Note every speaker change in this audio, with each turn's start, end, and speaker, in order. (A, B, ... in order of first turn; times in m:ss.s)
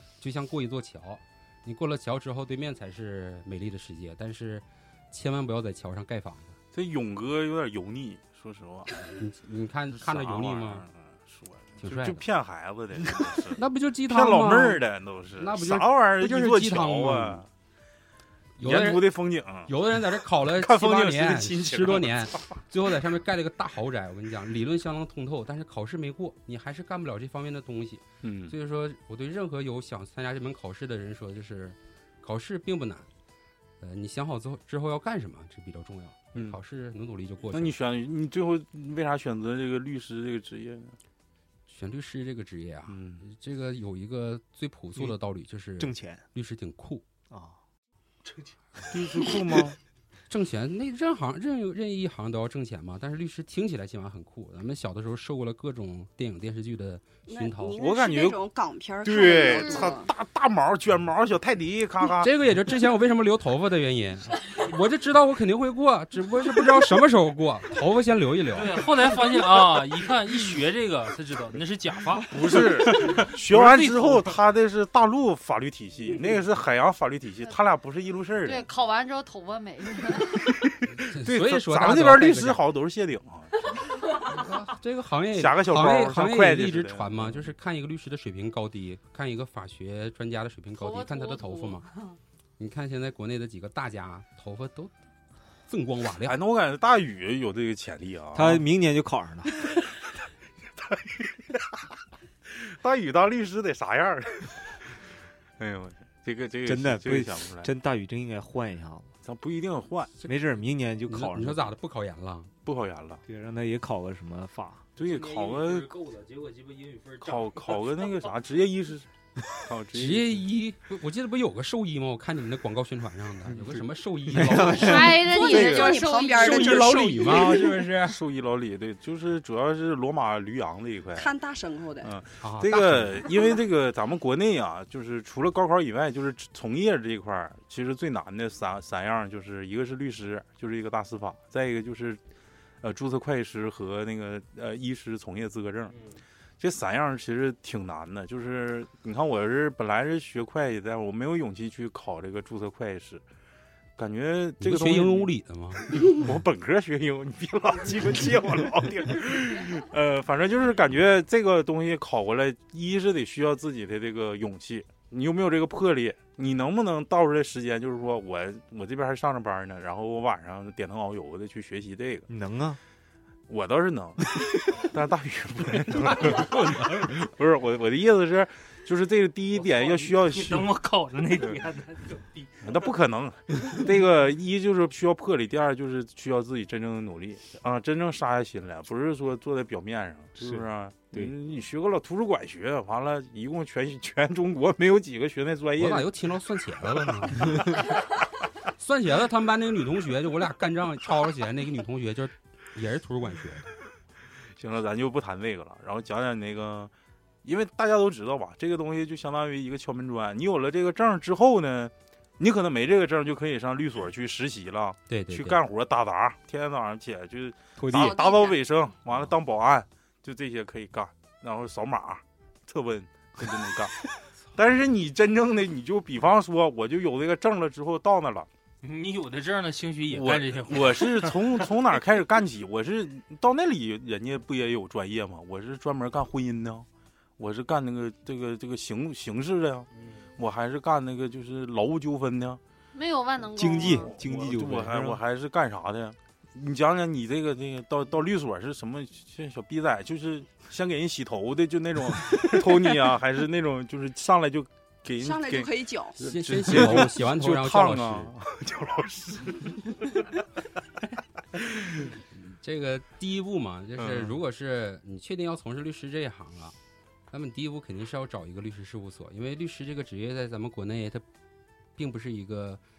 0:00.2-0:06.6 A
0:06.7-0:08.9 B
0:09.0-0:10.8 A
0:09.9-0:17.5 B
0:11.8-0:12.2 A
0:13.6-0:14.8 A
0:15.4-0:17.4 A
0:18.6-0:19.1 A
0:18.6-0:19.7 B
0:19.6-0:33.1 A
0:20.4-0:22.5 B
0:28.2-0:28.5 B
0:33.8-0:37.7 A
0:37.5-0:41.0 B
0:41.7-0:47.0 A
0:42.9-0:43.2 B
0:45.8-0:46.2 C
0:47.3-0:47.6 C
0:48.9-0:49.8 B
0:50.3-0:57.8 A
0:57.3-1:00.1 D
0:57.8-0:58.4 B
0:59.0-1:02.3 B
1:02.2-1:08.8 A
1:08.5-1:14.3 E
1:12.3-1:18.6 B
1:18.4-1:20.5 F
1:21.1-1:22.6 A
1:21.2-1:23.6 B
1:24.2-1:31.8 A
1:25.3-1:27.5 B
1:30.7-1:32.2 F
1:32.6-1:34.9 A
1:35.7-1:36.4 A
1:36.2-1:38.6 B
1:38.3-1:39.7 C
1:40.8-1:41.8 B
1:42.5-1:44.9 B
1:45.6-1:47.7 B
1:46.6-1:49.1 C
1:49.2-1:50.1 B
1:50.2-1:51.7 C
1:51.1-1:52.5 A
1:52.6-1:53.2 B
1:53.2-1:54.8 C
1:55.0-1:55.9 B
1:55.0-1:58.4 E
1:57.2-1:59.1 B
1:59.6-2:00.4 B
1:59.9-2:05.1 A
2:04.3-2:05.2 C
2:04.7-2:06.8 F
2:05.1-2:07.7 D
2:05.4-2:06.0 B
2:06.3-2:08.2 A
2:07.0-2:11.3 B
2:11.2-2:12.1 D
2:12.0-2:22.2 B
2:12.4-2:13.2 A
2:22.8-2:26.0 B
2:25.9-2:26.2 E
2:26.6-2:33.2 B
2:34.0-2:52.3 B
2:34.6-2:36.0 A
2:52.3-2:52.8 C
2:53.5-3:00.7 B
2:56.3-2:56.9 E
2:59.6-3:02.8 E
3:02.6-3:16.1 B
3:10.4-3:10.6 C
3:15.8-3:17.8 A
3:18.8-3:23.6 A
3:24.6-3:26.9 B
3:27.4-3:44.0 B
3:35.1-3:35.6 A
3:37.8-3:38.2 C
3:37.9-3:38.6 D
3:44.5-3:48.5 B
3:48.8-3:51.6 E
3:50.1-3:56.9 B
3:57.4-4:02.6 B
4:02.9-4:04.1 F
4:03.5-4:05.2 C
4:03.8-4:20.3 B
4:15.2-4:16.2 D
4:16.2-4:18.3 A
4:21.6-4:22.1 B
4:22.4-4:26.7 A
4:24.0-4:24.3 B
4:27.3-4:31.2 A
4:32.0-4:32.8 A